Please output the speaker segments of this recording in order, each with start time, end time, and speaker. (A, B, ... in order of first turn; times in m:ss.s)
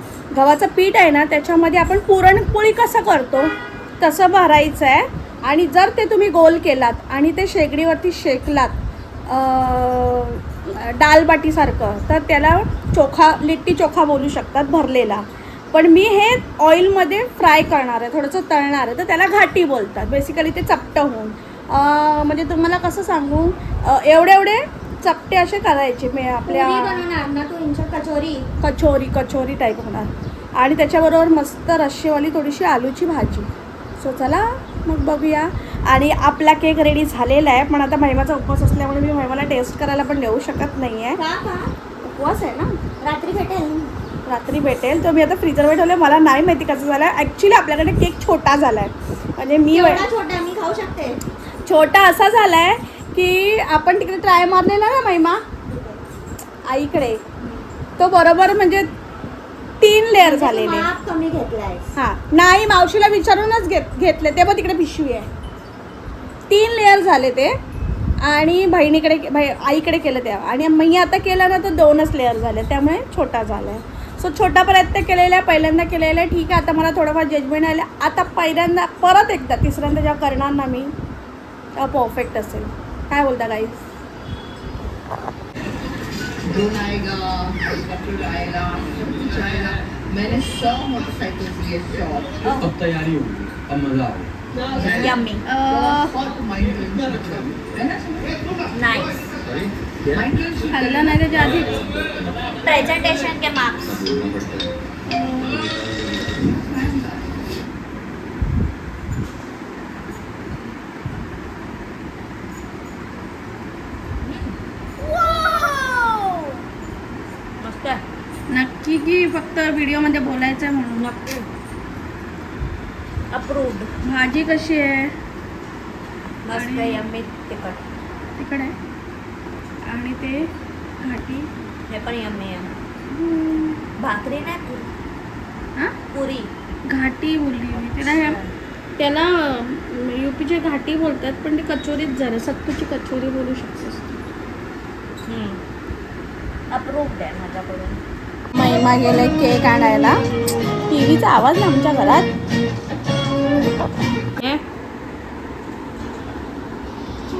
0:00.3-0:27.0 A
0:26.5-0:28.5 B
0:28.6-0:41.2 A
0:41.2-0:41.7 B
0:42.0-0:42.7 A
0:43.0-0:43.9 B
0:44.2-0:50.0 A
0:49.7-0:51.2 B
0:51.6-0:55.4 A
0:55.7-0:56.0 B
0:56.7-0:57.2 A
0:58.0-0:58.9 A
0:59.8-1:00.9 A
1:00.2-1:01.8 B
1:02.0-1:05.3 A
1:06.5-1:07.5 A
1:08.2-1:20.9 A
1:21.8-1:23.8 A
1:26.5-1:32.4 C
1:32.4-1:32.7 B
1:32.6-1:34.3 D
1:34.7-1:35.4 B
1:35.4-1:36.2 A
1:35.8-1:38.3 C
1:38.7-1:39.2 B
1:39.5-1:40.3 D
1:40.2-1:40.5 C
1:40.6-1:41.9 A
1:42.6-1:44.0 B
1:43.9-1:44.7 D
1:45.0-1:45.6 A
1:45.9-1:46.5 D
1:54.2-1:56.6 B
1:57.6-1:58.0 B
1:58.5-2:01.1 A
2:01.0-2:01.5 B
2:03.3-2:03.9 B
2:04.0-2:05.1 A
2:06.4-2:07.8 B
2:06.5-2:07.0 A
2:08.4-2:08.7 A
2:09.9-2:11.5 A
2:11.9-2:12.7 B
2:13.1-2:13.8 A
2:14.0-2:14.9 B
2:16.1-2:16.5 B
2:16.9-2:18.4 A
2:17.8-2:18.5 B
2:19.0-2:24.2 A
2:25.2-2:25.6 B
2:26.7-2:28.0 B
2:28.5-2:30.2 A
2:30.9-2:32.3 A